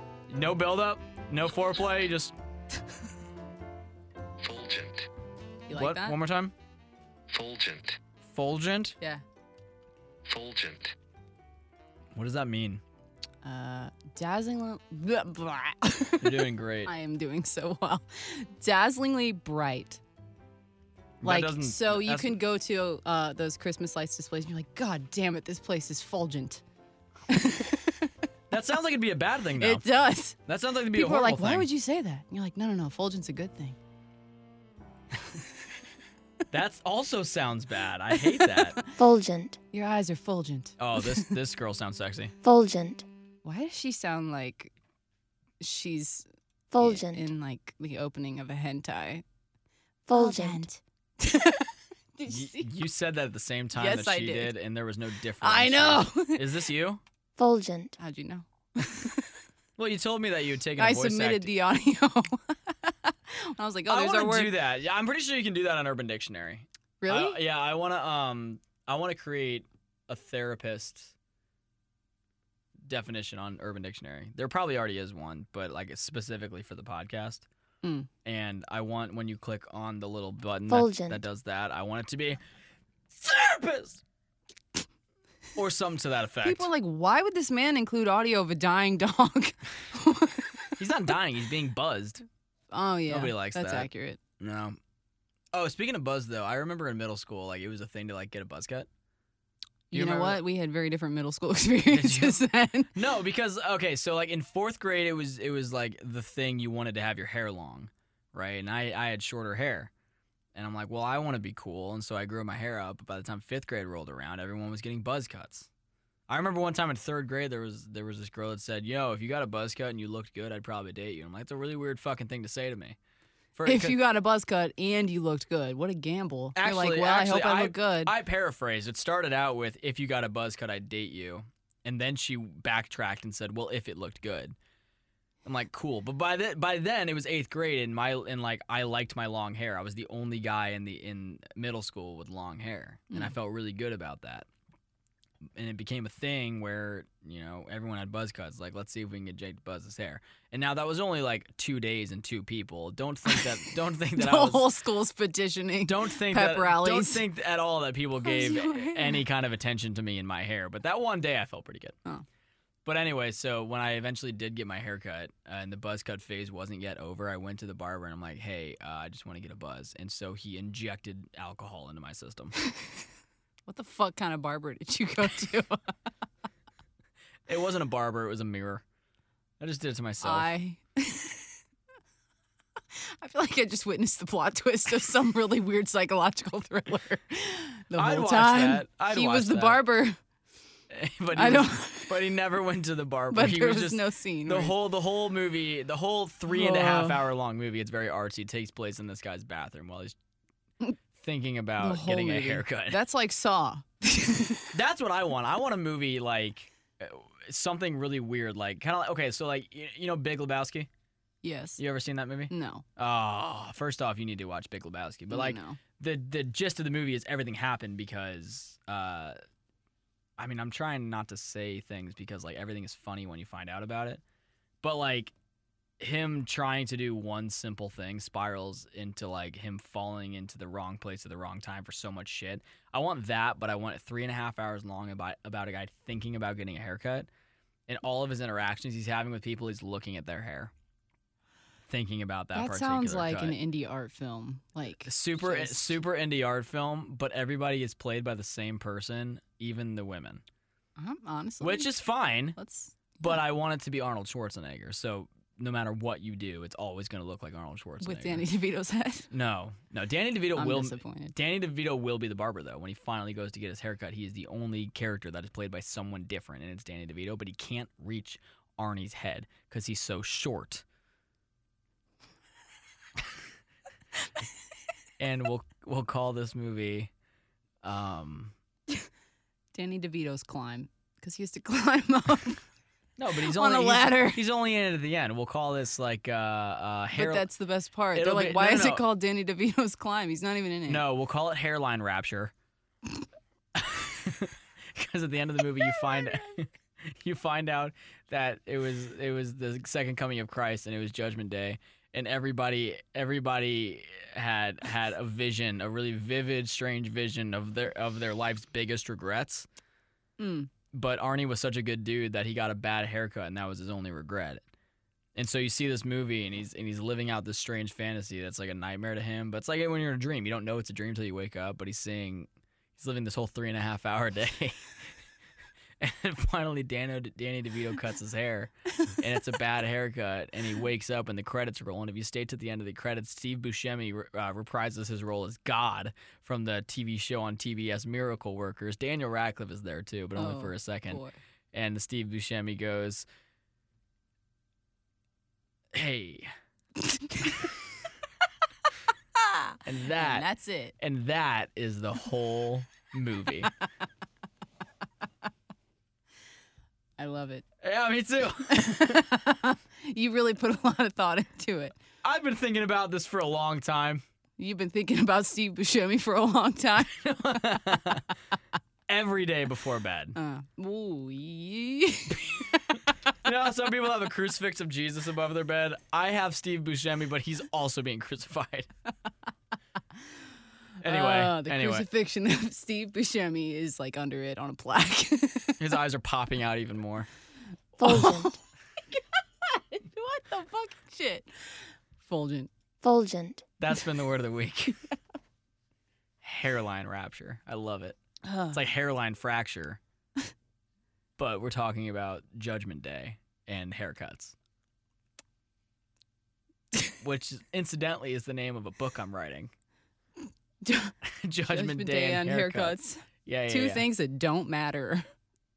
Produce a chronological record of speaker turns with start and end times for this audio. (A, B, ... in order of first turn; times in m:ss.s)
0:00.3-0:02.3 A
0:04.4-0:05.0 B
0:05.7-0:06.2 C
0:05.7-0:06.5 A
0:07.3-0:08.0 B
0:08.2-0:09.0 A
0:10.2-0:10.9 B
0:12.1-0:12.8 A
0:13.4-0:20.0 C
0:16.2-0:16.9 A
0:21.2-0:22.4 A
0:21.2-0:26.6 C
0:27.3-0:28.1 C
0:28.5-0:29.9 A
0:29.6-0:30.4 C
0:30.4-0:31.7 A
0:30.9-0:33.8 C
0:36.5-0:38.8 A
0:38.2-0:38.8 C
0:38.9-0:39.6 D
0:39.7-0:41.3 C
0:40.8-0:42.3 A
0:42.4-0:43.0 D
0:43.4-0:44.7 C
0:45.6-0:46.3 C
0:46.7-0:47.3 D
0:46.8-0:49.2 C
0:50.1-0:50.6 D
0:50.1-0:52.7 C
0:52.3-0:57.0 A
0:53.7-0:54.5 C
0:55.4-0:56.5 C
0:57.4-0:58.0 D
0:58.0-0:59.3 C
0:59.8-1:01.5 A
1:00.8-1:04.5 C
1:03.9-1:11.1 A
1:07.0-1:07.4 C
1:12.8-1:17.4 A
1:17.8-1:18.1 C
1:18.2-1:22.4 A
1:20.7-1:21.2 D
1:23.1-1:24.0 A
1:25.5-1:26.7 A
1:26.4-1:30.7 C
1:30.8-1:32.2 A
1:32.7-1:34.2 C
1:33.1-1:34.8 A
1:35.5-1:38.9 A
1:39.9-1:40.4 A
1:39.9-1:43.0 C
1:41.8-1:49.9 A
1:50.5-1:55.7 A
1:56.3-2:03.0 A
2:03.5-2:04.0 A
2:03.6-2:08.1 C
2:06.5-2:14.6 A
2:15.4-2:24.5 A
2:25.5-2:34.7 A
2:33.3-2:33.5 C
2:34.0-2:37.2 C
2:35.8-2:42.0 A
2:38.2-2:39.2 C
2:42.8-2:52.5 A
2:53.7-2:55.9 C
2:57.5-2:58.8 A
2:59.6-3:00.5 A
3:00.2-3:01.5 C
3:02.9-3:10.2 C
3:07.9-3:09.8 A
3:10.9-3:20.2 A
3:11.3-3:12.2 C
3:13.3-3:14.8 C
3:16.5-3:17.2 C
3:21.2-3:23.0 A
3:21.8-3:24.7 C
3:24.7-3:30.9 A
3:31.4-3:31.8 C
3:31.8-3:39.4 A
3:32.5-3:32.8 C
3:35.3-3:35.8 C
3:40.4-3:44.2 A
3:44.8-3:45.3 A
3:46.0-3:57.3 A
3:57.9-4:00.7 A
4:01.9-4:03.6 A
4:02.5-4:06.0 C
4:05.0-4:10.4 A
4:11.0-4:11.9 C
4:11.6-4:12.6 A
4:12.6-4:13.3 C
4:13.2-4:18.5 A
4:18.0-4:19.3 C
4:19.3-4:30.8 A
4:20.5-4:21.3 C
4:35.2-4:37.1 A
4:37.8-4:38.5 A
4:39.7-4:42.6 C
4:43.2-4:47.5 A
4:43.4-4:44.4 C
4:47.1-4:51.0 C
4:48.1-4:49.0 A
4:50.8-4:52.5 A
4:53.7-5:09.7 A
5:10.4-5:10.7 C
5:10.9-5:14.6 A
5:15.3-5:25.1 A
5:26.0-5:43.2 A
5:40.4-5:41.4 C
5:45.9-5:46.5 A
5:49.4-5:50.9 C
5:49.8-5:50.5 A
5:51.0-5:53.7 A
5:57.2-5:57.6 C
5:57.8-5:59.2 A
5:58.6-6:02.0 C
6:02.2-6:04.2 A
6:04.6-6:07.8 C
6:07.1-6:08.3 A
6:09.1-6:10.4 A
6:10.4-6:13.0 C
6:13.4-6:18.9 A
6:21.0-6:22.1 A
6:21.0-6:25.8 C
6:25.8-6:27.3 A
6:28.0-6:28.6 D
6:28.0-6:28.5 C
6:29.1-6:32.7 C
6:33.0-6:33.6 D
6:33.8-6:35.0 A
6:36.4-6:38.2 A
6:38.4-6:38.8 C
6:38.7-6:40.0 A
6:41.4-6:44.6 A
6:47.1-6:49.7 A
6:50.8-6:55.2 C
6:51.2-6:54.0 A